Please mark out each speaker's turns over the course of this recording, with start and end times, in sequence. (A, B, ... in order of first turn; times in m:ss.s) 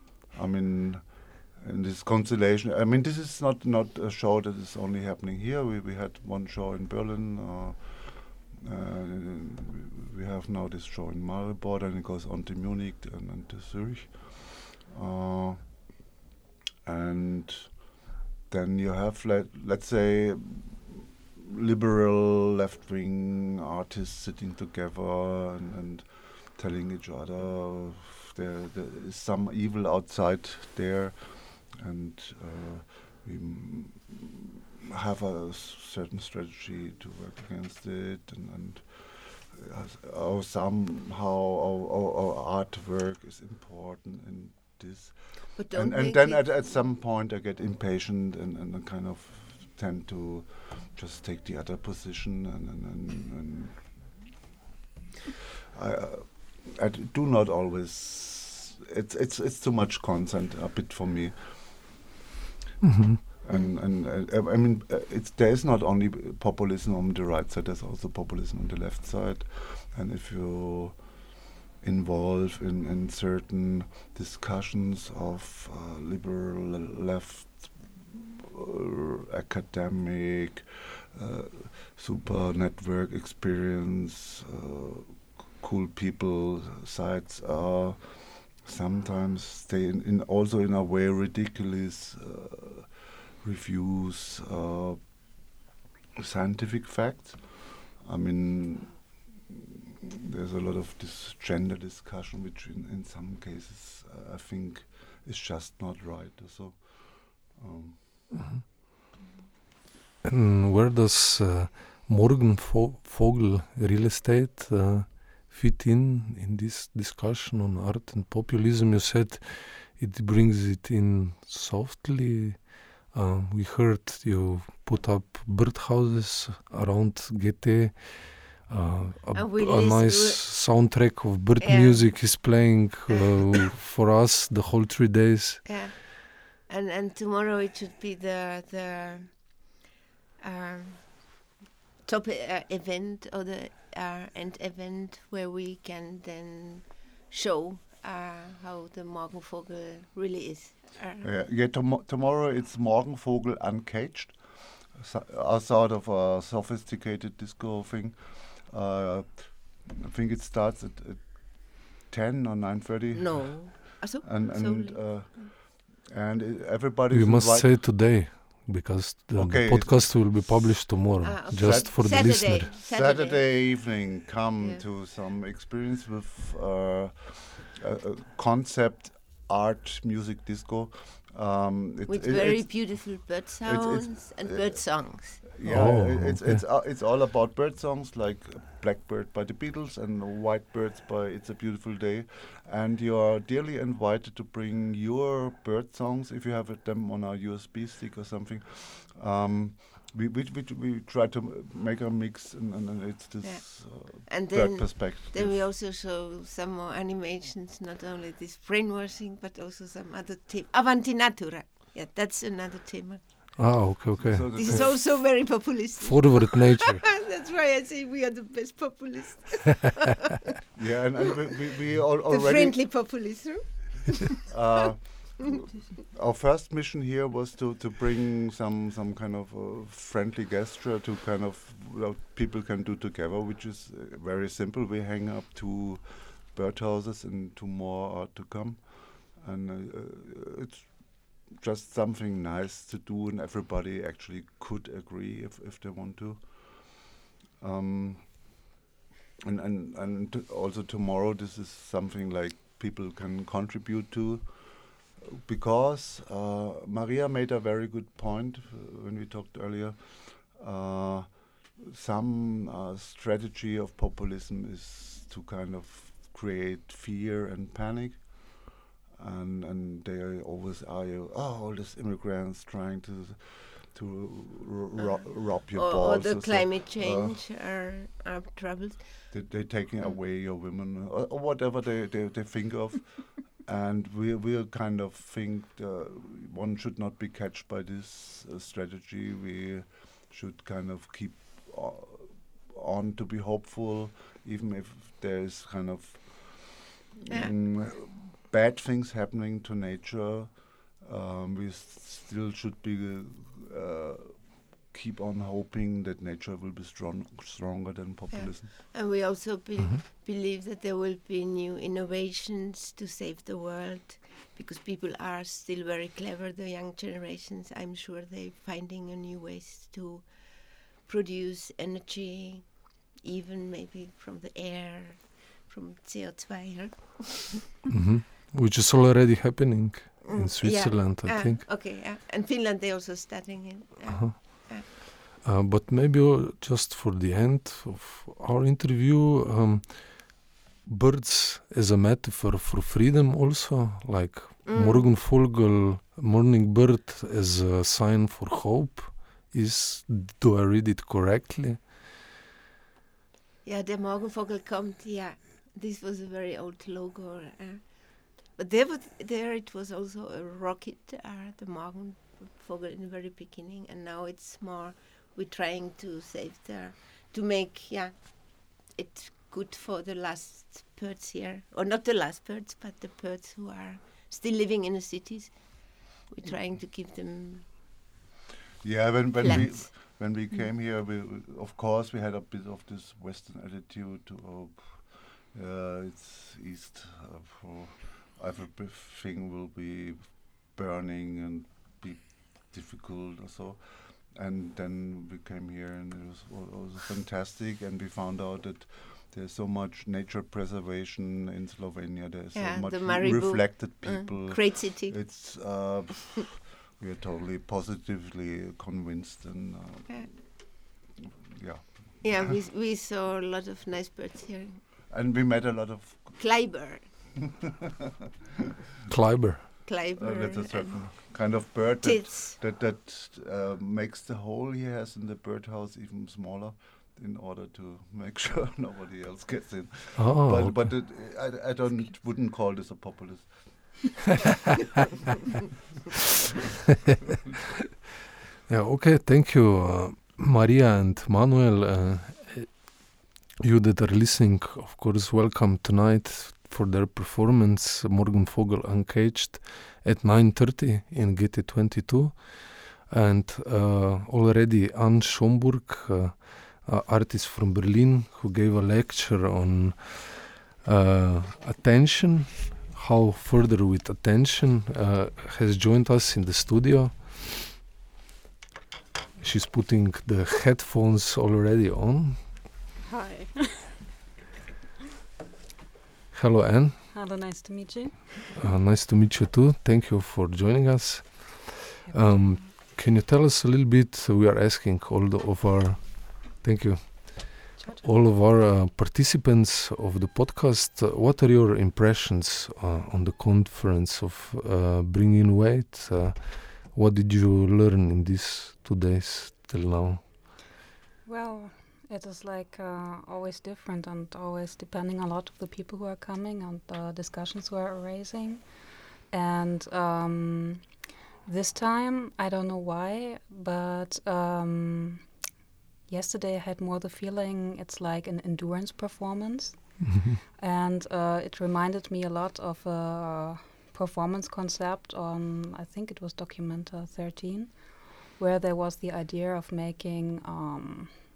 0:00.3-0:16.0 A
0:16.8-0:54.1 A
0:45.6-0:46.7 B
0:55.7-1:02.0 A
1:02.8-1:03.2 C
1:03.2-1:11.2 A
1:11.8-1:35.1 A
1:36.2-1:48.5 A
1:50.2-2:15.6 C
2:09.3-2:10.9 B
2:11.6-2:12.6 B
2:15.6-2:19.8 B
2:20.4-2:31.3 B
2:31.2-2:47.9 A
2:43.1-2:45.6 B
2:47.1-2:52.7 C
2:49.4-3:25.6 A
2:51.2-2:53.8 B
2:54.6-2:54.8 B
3:02.1-3:05.5 B
3:05.6-3:06.6 C
3:23.4-3:34.0 B
3:33.6-3:34.8 C
3:33.7-3:35.0 A
3:34.5-3:39.9 B
3:36.0-3:37.0 C
3:40.7-3:42.9 A
3:42.2-3:44.4 B
3:44.5-3:45.4 A
3:46.1-4:08.6 A
4:09.4-4:37.4 A
4:35.0-4:39.3 B
4:39.3-5:08.8 A
5:08.3-5:27.6 B
5:09.8-5:10.0 C
5:27.9-5:31.6 C
5:30.2-5:34.9 B
5:34.1-5:51.9 C
5:44.6-5:45.1 B
5:53.6-6:17.8 B
6:18.8-6:52.6 A
6:19.4-6:20.2 B
6:42.5-6:45.2 B
6:52.2-6:54.8 B
6:55.1-6:56.4 A
6:56.4-6:57.1 B
6:57.4-6:57.7 A
6:59.1-6:59.9 C
6:59.8-7:02.6 B
7:00.1-7:14.2 A
7:10.2-7:11.0 C
7:18.7-7:23.0 C
7:23.6-7:47.3 C
7:49.4-7:52.4 C
7:53.0-7:54.0 D
7:56.3-7:57.0 C
7:57.1-7:58.5 D
7:58.6-8:20.2 C
8:02.0-8:02.7 D
8:07.8-8:08.1 D
8:21.2-8:28.6 D
8:29.3-8:30.8 D
8:31.4-8:35.2 D
8:36.1-8:47.8 D
8:40.0-8:40.4 C
8:48.4-8:51.1 D